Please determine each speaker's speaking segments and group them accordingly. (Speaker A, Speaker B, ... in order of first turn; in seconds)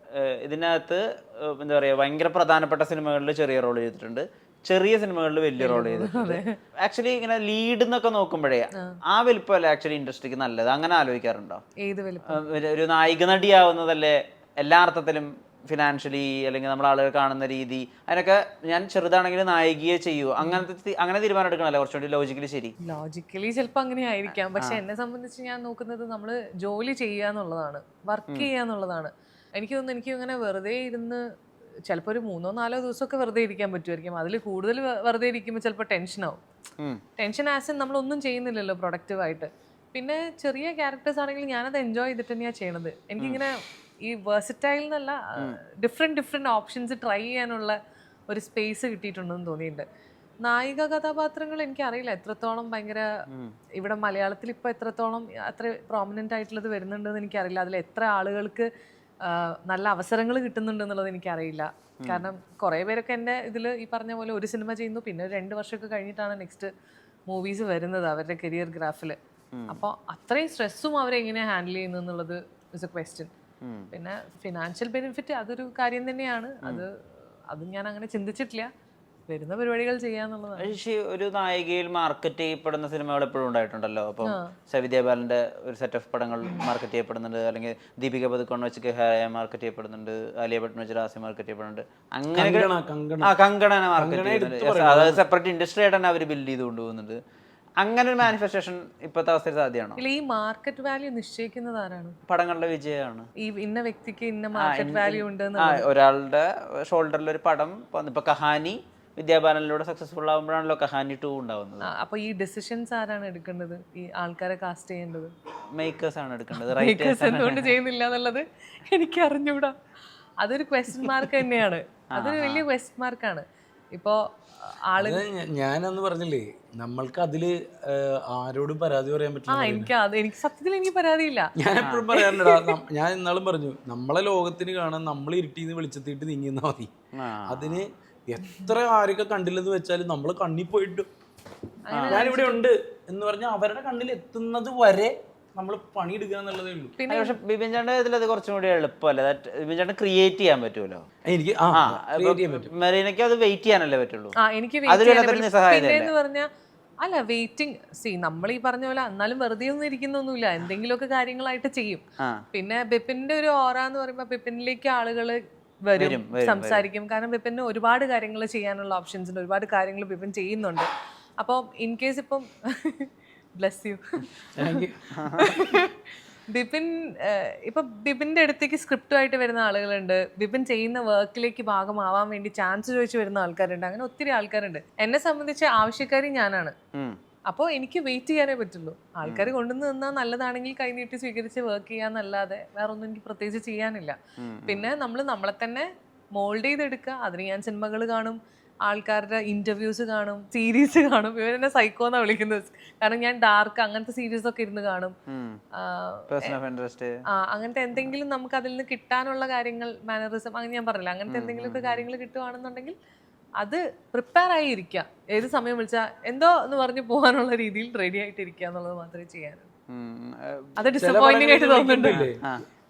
Speaker A: 0.1-11.6, 12.3-22.7, 62.0-62.3, 69.5-69.8, 73.6-73.9, 80.6-92.7, 93.2-97.2, 97.8-100.0, 102.3-103.3, 104.5-111.9, 115.7-117.7, 122.1-122.6, 137.1-137.8, 141.9-142.2, 147.1-151.0, 151.7-154.3, 154.9-156.1, 166.0-166.8, 175.1-175.5, 189.2-189.5, 194.4-194.9, 205.3-205.6, 206.3-207.1, 211.3-212.0, 219.9-220.8
Speaker B: 5.6-6.6, 11.8-12.4, 22.8-31.2, 31.9-36.4, 37.2-47.8, 48.3-49.8, 50.4-53.0, 53.8-58.7, 59.2-66.7, 67.3-69.2, 69.7-73.3, 73.9-76.9, 77.5-78.7, 79.3-80.8, 84.2-84.5, 100.0-102.2, 103.4-105.8, 111.9-115.3, 116.5-119.7, 120.4-125.2, 129.5-131.5, 132.1-132.8, 141.9-142.6, 147.0-147.4, 154.4-156.5, 157.0-170.9, 171.4-175.9, 176.5-186.7, 187.5-205.1, 205.8-206.5, 207.4-212.9, 213.6-219.7, 220.8-222.3
Speaker C: 92.3-93.3, 94.0-95.2, 125.0-129.9, 131.6-136.9, 137.4-141.1, 142.1-146.9, 151.2-152.7, 174.6-175.0, 221.0-222.4